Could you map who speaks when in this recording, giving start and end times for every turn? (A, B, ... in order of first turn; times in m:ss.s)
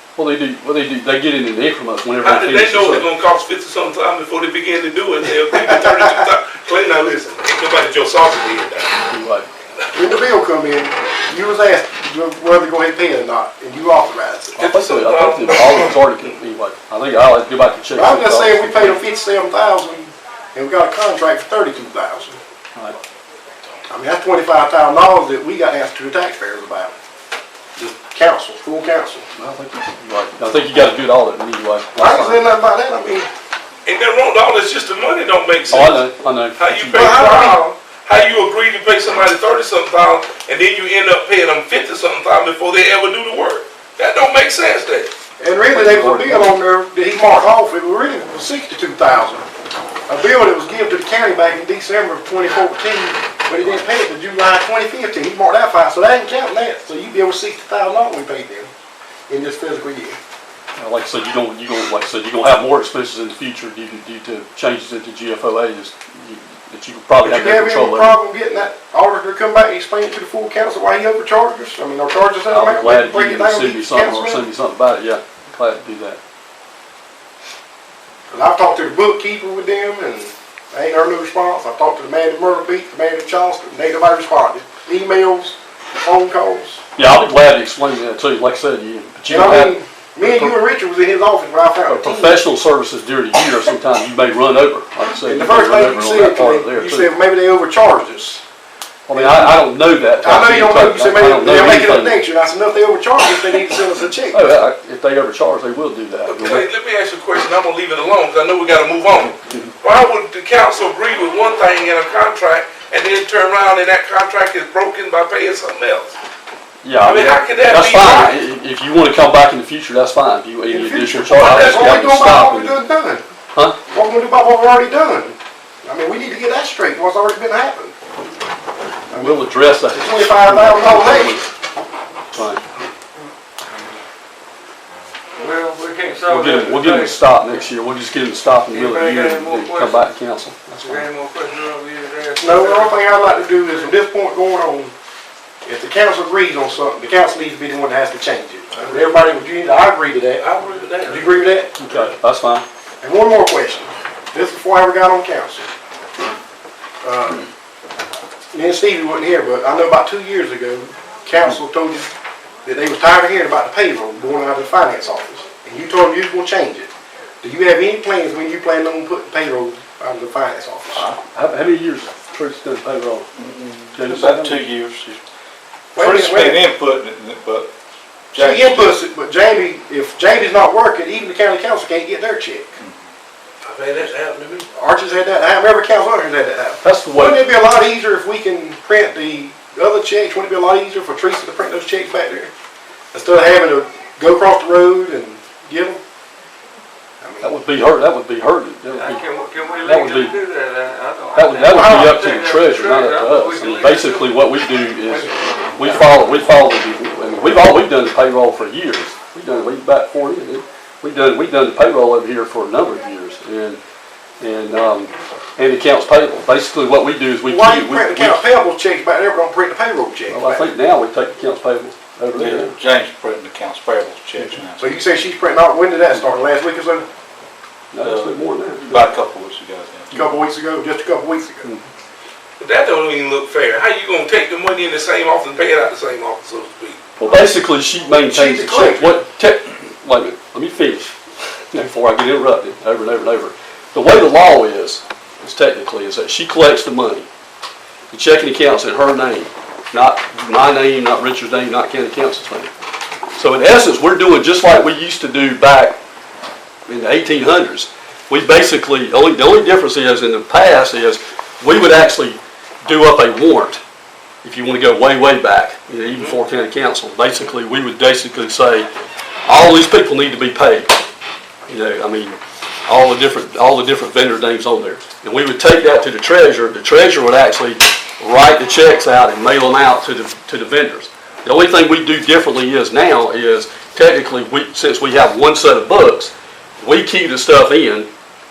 0:00.2-0:03.1 A
0:02.2-0:09.0 B
0:05.5-0:06.2 C
0:09.1-0:09.5 A
0:09.9-0:14.6 C
0:14.6-0:19.0 A
0:14.6-0:15.9 B
0:17.9-0:22.4 C
0:23.9-0:26.9 C
0:27.8-0:29.2 C
0:29.4-0:32.5 A
0:31.9-0:33.3 C
0:33.8-0:36.0 B
0:35.7-0:37.3 A
0:36.6-0:45.1 B
0:36.9-0:37.6 C
0:45.4-0:49.4 C
0:45.7-0:46.5 A
0:50.1-0:58.7 C
0:59.3-1:00.2 C
1:00.8-1:08.2 A
1:07.2-1:14.4 C
1:12.5-1:16.2 A
1:18.3-1:26.8 C
1:27.0-1:30.6 A
1:29.3-1:32.4 C
1:31.9-1:37.1 A
1:35.2-1:38.4 C
1:39.1-1:42.2 A
1:39.1-1:39.6 C
1:40.2-1:44.5 C
1:44.3-1:46.7 A
1:46.3-1:56.2 B
1:56.8-2:02.8 A
1:57.0-1:58.4 B
2:00.7-2:03.2 C
2:03.9-2:08.0 C
2:09.1-2:11.4 C
2:09.1-2:11.5 A
2:12.3-2:12.6 A
2:15.4-2:17.2 D
2:16.3-2:21.1 A
2:18.7-2:20.1 D
2:20.8-2:23.9 D
2:22.4-2:24.9 C
2:25.6-2:30.4 C
2:30.4-2:32.0 B
2:31.0-2:31.7 C
2:31.8-2:32.6 A
2:33.0-2:35.7 C
2:37.0-2:37.4 C
2:38.5-2:42.1 C
2:42.6-2:46.9 C
2:47.4-2:51.1 C
2:51.3-2:53.3 A
2:53.4-2:55.2 E
2:53.9-2:54.6 A
2:55.9-2:56.7 C
2:56.0-2:57.7 E
2:58.3-2:59.0 E
2:58.3-3:02.7 C
3:03.6-3:04.7 B
3:04.7-3:12.5 C
3:06.8-3:07.5 A
3:13.1-3:16.0 C
3:17.2-3:17.6 C
3:17.4-3:19.2 A
3:18.9-3:24.4 D
3:19.8-3:20.4 A
3:21.3-3:33.8 A
3:21.8-3:22.0 C
3:25.1-3:25.9 D
3:34.4-3:38.4 A
3:37.4-3:40.7 C
3:40.3-3:42.7 A
3:42.4-3:45.0 E
3:44.8-3:47.0 C
3:47.9-3:49.0 A
3:48.0-3:50.2 E
3:50.1-3:51.7 C
3:52.6-3:57.0 B
3:57.2-4:01.1 A
3:58.3-3:59.2 C
4:01.7-4:07.3 A
4:08.1-4:12.7 A
4:13.3-4:16.0 A
4:16.9-4:23.8 A
4:24.4-4:28.9 A
4:29.4-4:30.9 A
4:31.7-4:48.1 A